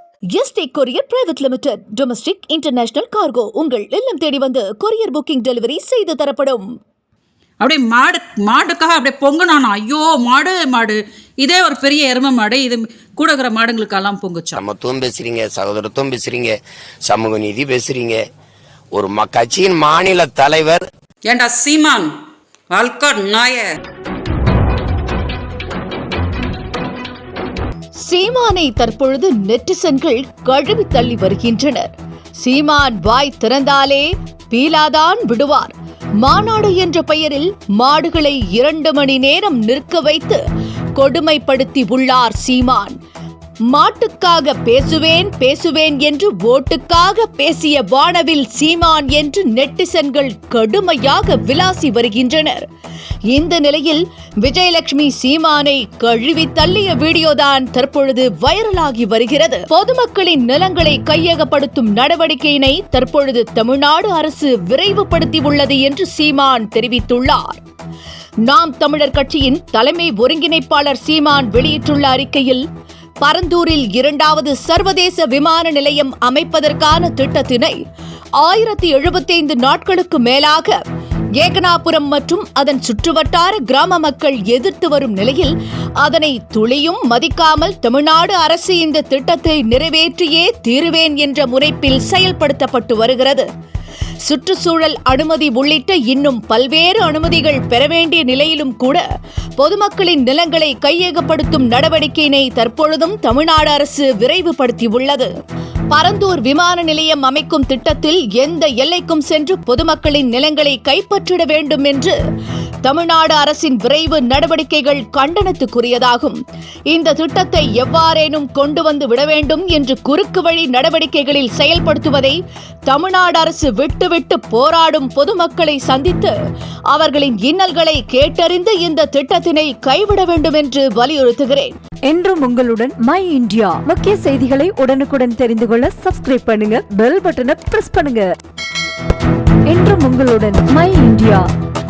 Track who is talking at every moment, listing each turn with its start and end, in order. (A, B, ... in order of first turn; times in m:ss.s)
0:00.4-0:06.7 A
0:07.6-0:14.6 B
0:14.6-0:18.2 C
0:18.9-0:20.9 C
0:21.3-0:22.1 B
0:22.7-0:23.7 B
0:28.0-0:40.4 A
0:41.0-0:43.0 A
0:43.7-0:52.7 A
0:53.3-1:07.6 A
1:08.5-1:12.6 A
1:13.2-1:17.8 A
1:18.4-1:20.8 A
1:21.4-1:33.5 A
1:34.2-1:39.0 A
1:39.6-1:45.3 A
1:45.9-1:52.2 A
1:52.8-1:56.4 A
1:56.9-2:06.4 A
2:06.9-2:11.8 A
2:12.1-2:18.3 D
2:19.7-2:21.5 D